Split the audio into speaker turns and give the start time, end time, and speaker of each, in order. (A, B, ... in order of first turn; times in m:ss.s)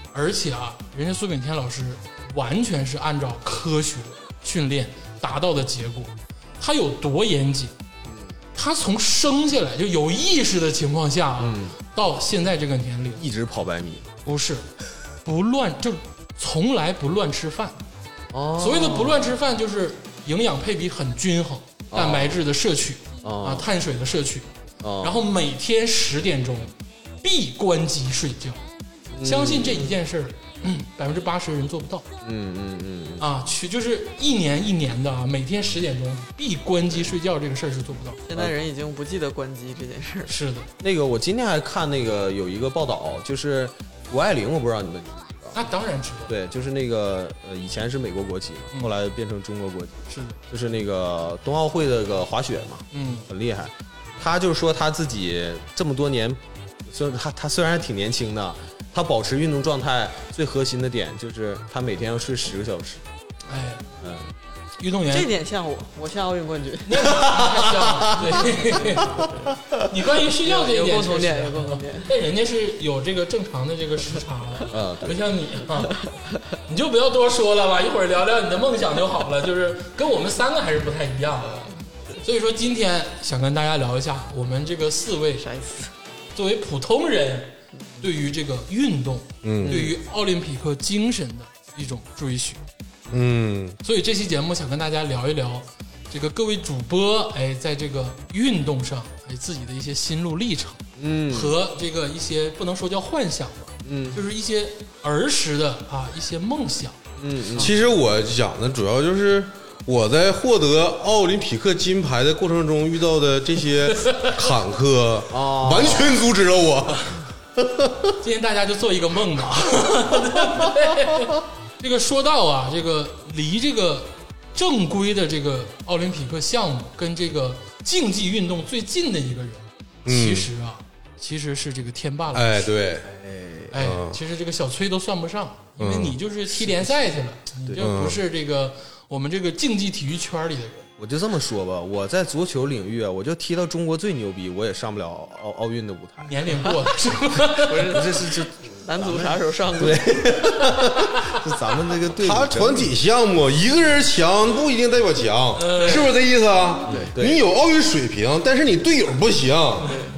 0:00.1-0:07.7 A
0:08.1-0:08.4 B
0:08.6-0:13.2 A
0:11.4-0:11.8 B
0:13.2-0:14.1 B
0:14.3-0:14.7 A
0:15.2-0:17.8 A
0:18.3-0:19.3 B
0:18.6-0:24.5 A
0:21.9-0:22.4 B
0:23.2-0:23.7 B
0:24.8-0:25.2 B
0:25.0-0:28.6 A
0:29.1-0:30.0 B
0:29.2-0:32.0 A
0:32.2-0:33.2 B
0:33.2-0:38.2 A
0:38.3-0:40.4 C
0:40.3-0:40.7 A
0:40.8-0:45.6 B
0:45.5-0:46.4 A
0:46.3-1:03.0 B
0:50.1-0:50.4 A
0:52.9-0:53.3 A
1:03.5-1:03.9 A
1:04.0-1:04.3 B
1:04.8-1:05.3 A
1:05.1-1:07.1 C
1:06.9-1:16.0 A
1:07.2-1:08.2 B
1:10.4-1:12.1 C
1:14.7-1:15.2 B
1:16.7-1:25.4 A
1:25.4-1:25.9 C
1:26.4-1:32.6 A
1:29.4-1:29.9 D
1:33.1-1:33.8 D
1:33.8-1:47.0 A
1:41.0-1:41.6 B
1:43.8-1:44.2 B
1:47.2-1:47.7 B
1:47.6-1:58.1 D
1:53.9-1:54.4 A
1:55.3-1:56.2 B
1:58.2-2:12.6 A
2:10.0-2:10.5 D
2:12.3-2:13.1 D
2:13.1-2:13.7 B
2:13.7-2:20.9 A
2:13.8-2:14.2 D
2:15.8-2:16.2 D
2:17.8-2:18.2 D
2:21.0-2:26.8 B
2:26.2-2:28.3 A
2:27.7-2:30.1 C
2:27.7-2:32.9 B
2:32.2-2:40.0 D
2:35.6-2:36.2 A
2:36.9-2:37.4 B